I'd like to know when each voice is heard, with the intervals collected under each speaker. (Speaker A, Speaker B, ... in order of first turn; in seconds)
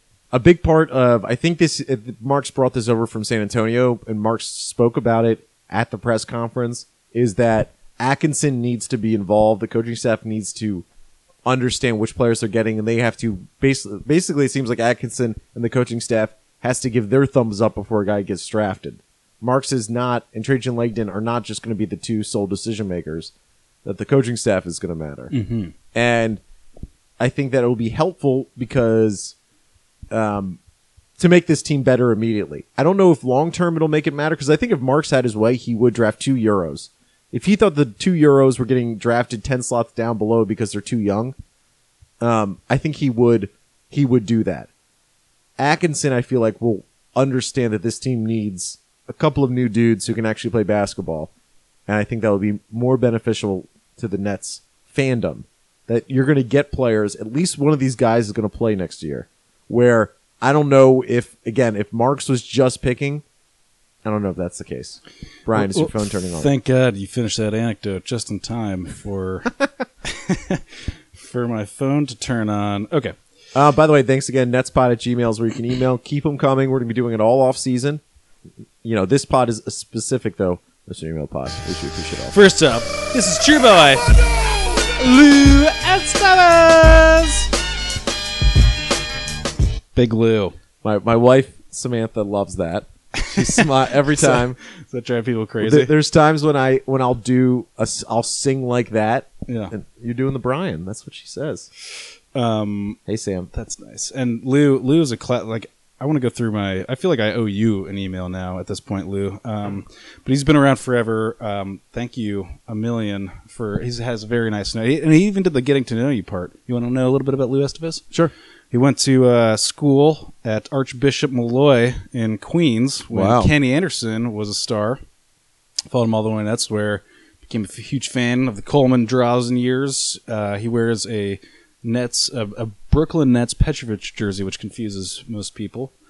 Speaker A: 0.3-10.8, 11.4-23.3, 23.9-25.3, 25.9-26.4, 27.2-29.4, 30.1-30.6, 31.2-41.4, 42.2-44.7, 45.6-51.3, 51.9-63.2, 64.0-66.5, 73.5-78.0, 78.8-82.3, 90.8-94.6, 95.6-101.7, 103.1-103.5, 123.1-123.5
Speaker B: 25.3-25.7, 65.5-69.5, 70.0-73.2, 82.3-84.1, 84.9-87.5, 90.0-90.5, 93.2-95.9, 99.5-99.8, 102.3-103.0, 103.5-118.0, 118.7-125.0, 125.9-135.9